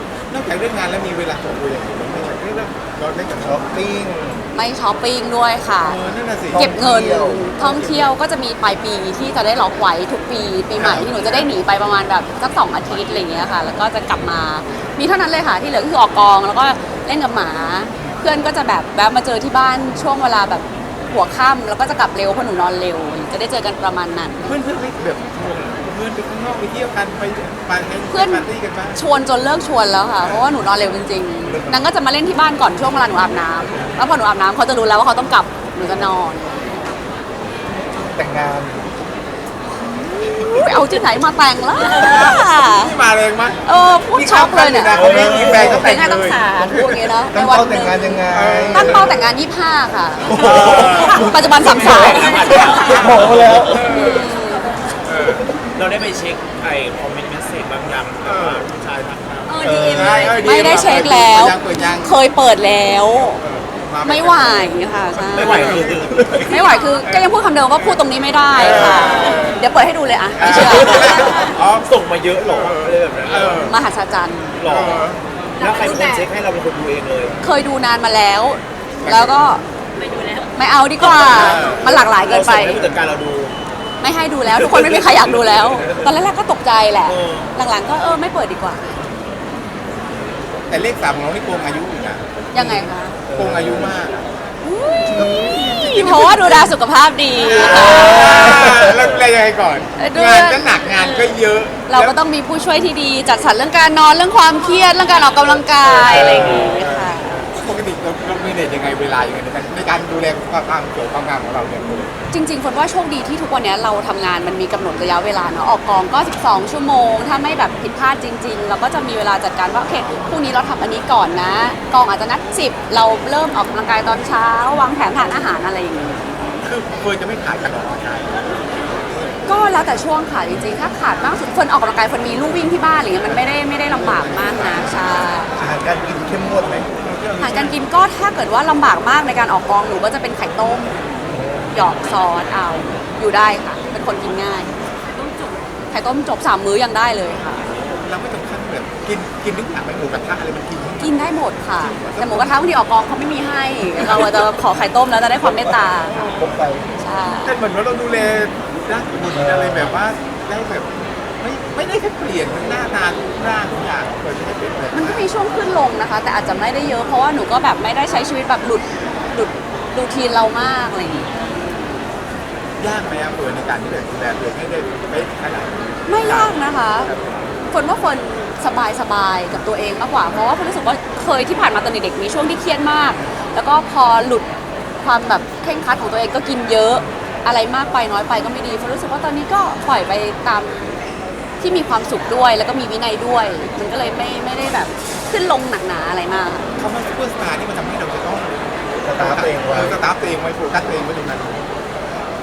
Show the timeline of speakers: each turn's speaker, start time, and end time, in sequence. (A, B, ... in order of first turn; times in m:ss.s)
0:00.3-0:03.7 A
0:03.4-0:04.5 B
0:04.5-0:06.0 C
0:05.8-0:06.7 A
0:06.5-0:07.5 B
0:06.5-0:24.6 C
0:07.6-0:08.2 A
0:10.8-0:11.5 A
0:24.4-0:29.0 A
0:28.1-0:36.8 C
0:31.5-0:31.9 B
0:38.2-0:38.8 B
0:40.2-0:43.0 C
0:40.4-0:40.8 A
0:41.8-0:47.1 A
0:43.6-0:53.2 C
0:44.9-0:45.8 D
0:45.1-0:45.6 B
0:47.3-0:49.2 B
0:48.3-0:49.3 A
0:50.3-0:51.3 A
0:50.3-0:51.9 B
0:50.3-0:53.9 D
0:51.7-0:53.1 E
0:52.8-0:53.9 B
0:53.7-0:54.3 A
0:53.8-0:54.8 C
0:55.0-0:55.5 A
0:55.7-1:00.4 D
0:58.2-0:58.7 A
0:59.4-1:01.0 E
0:59.5-1:02.2 A
1:00.4-1:03.4 C
1:03.2-1:08.0 A
1:04.0-1:05.9 C
1:05.4-1:06.7 D
1:06.5-1:11.3 C
1:06.5-1:07.0 E
1:08.5-1:09.6 A
1:10.4-1:11.8 A
1:10.5-1:13.7 D
1:11.0-1:11.5 E
1:12.4-1:13.8 A
1:13.6-1:14.6 C
1:14.6-1:17.4 D
1:14.6-1:15.2 A
1:15.6-1:16.3 E
1:17.4-1:19.6 C
1:19.0-1:19.5 A
1:20.0-1:20.5 E
1:20.6-1:22.9 C
1:21.0-1:23.6 D
1:21.1-1:21.9 A
1:24.0-1:28.9 C
1:24.5-1:26.2 D
1:27.0-1:27.5 D
1:30.7-1:34.3 A
1:32.5-1:33.2 C
1:33.3-1:33.9 B
1:34.6-1:38.6 C
1:35.1-1:35.8 B
1:35.1-1:36.8 A
1:37.4-1:42.2 A
1:37.6-1:39.1 B
1:40.0-1:41.3 C
1:41.9-1:47.5 C
1:45.8-1:52.1 A
1:46.0-1:46.7 B
1:52.3-2:06.4 C
2:06.6-2:08.8 A
2:09.5-2:15.5 C
2:13.3-2:15.4 A
2:15.6-2:16.9 B
2:17.0-2:17.8 A
2:17.4-2:21.0 C
2:21.3-2:21.9 B
2:21.7-2:24.7 C
2:25.0-2:25.7 E
2:25.9-2:27.6 C
2:27.9-2:31.3 A
2:31.0-2:36.2 C
2:31.9-2:32.6 A
2:36.1-2:36.5 A
2:36.4-2:36.9 B
2:37.0-2:37.6 C
2:37.4-2:40.9 A
2:39.3-2:40.0 B
2:41.4-2:45.3 A
2:44.9-2:51.5 C
2:52.8-2:57.5 A
2:56.1-2:57.1 C
2:57.7-3:04.5 C
3:05.0-3:11.0 C
3:11.6-3:16.7 C
3:16.8-3:18.6 A
3:19.0-3:20.0 B
3:19.2-3:21.6 A